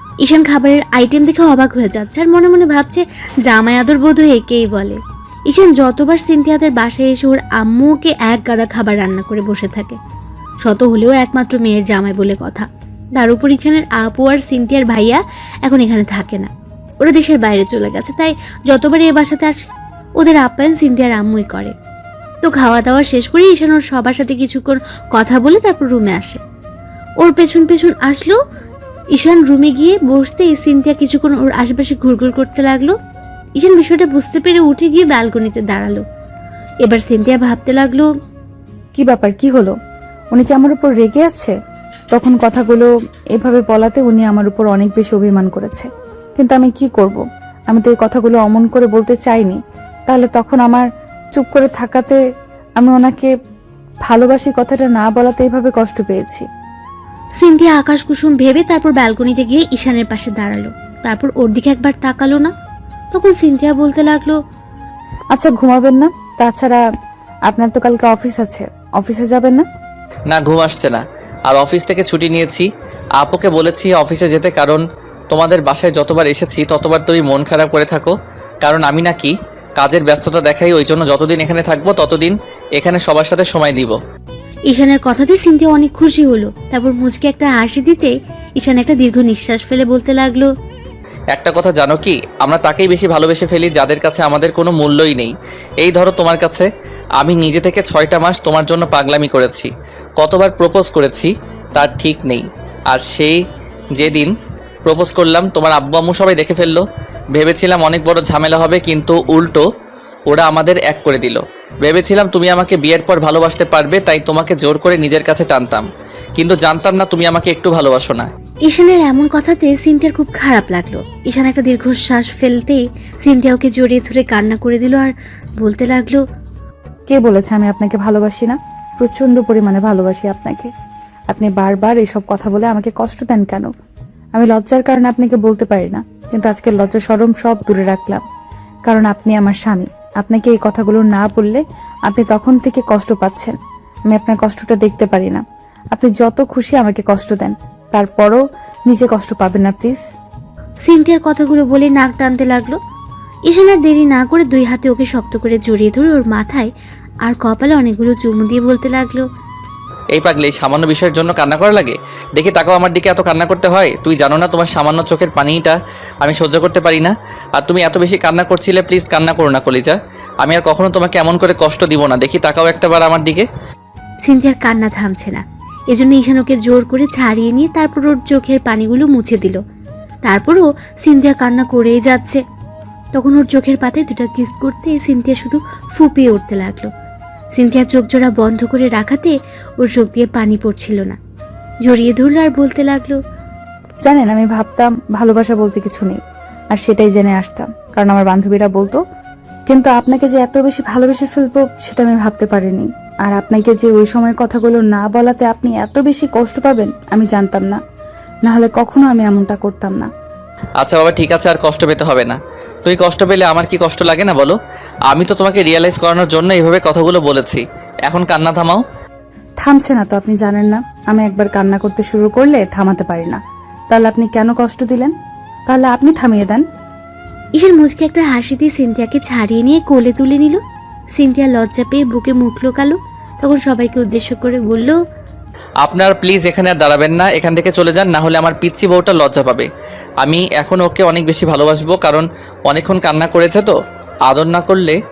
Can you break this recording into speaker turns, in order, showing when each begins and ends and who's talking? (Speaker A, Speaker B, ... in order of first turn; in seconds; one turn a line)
Speaker A: 0.2-10.0
Speaker A: 10.6-16.5
Speaker A: 17.0-19.6
Speaker A: 20.2-21.7
Speaker A: 22.4-26.4
Speaker A: 27.2-28.4
Speaker A: 29.1-33.0
Speaker A: 33.6-36.0
Speaker A: 36.8-38.1
Speaker B: 39.0-39.8
Speaker B: 40.3-41.5
Speaker B: 42.1-52.2
Speaker B: 52.8-53.3
Speaker B: 54.1-56.5
Speaker A: 57.4-62.5
Speaker A: 63.1-64.4
Speaker B: 65.3-66.8
Speaker B: 67.5-69.7
Speaker C: 70.3-72.7
Speaker C: 73.2-84.0
Speaker A: 84.7-90.5
Speaker C: 91.3-96.7
Speaker C: 97.2-103.4
Speaker C: 104.0-104.3
Speaker C: 104.8-106.8
Speaker C: 107.3-109.6
Speaker C: 110.3-115.8
Speaker C: 116.4-118.3
Speaker A: 118.7-126.2
Speaker B: 127.1-130.7
Speaker B: 131.3-133.7
Speaker B: 134.3-138.2
Speaker B: 138.9-143.6
Speaker B: 144.1-145.4
Speaker B: 145.9-150.0
Speaker A: 150.9-152.8
Speaker A: 153.5-156.7
Speaker A: 157.2-159.2
Speaker C: 160.1-173.5
Speaker A: 174.3-179.6
Speaker A: 180.3-182.4
Speaker A: 183.2-186.9
Speaker A: 187.6-191.2
Speaker A: 191.9-193.2
Speaker B: 194.1-196.2
Speaker B: 196.7-199.0
Speaker B: 199.7-207.8
Speaker B: 208.5-210.1
Speaker C: 210.8-214.6
Speaker C: 215.1-218.8
Speaker B: 219.6-223.4
Speaker B: 223.9-225.1
Speaker B: 225.7-226.6
Speaker A: 227.6-230.6
Speaker A: 231.2-235.0
Speaker C: 235.8-239.7
Speaker C: 240.2-243.8
Speaker C: 244.3-245.0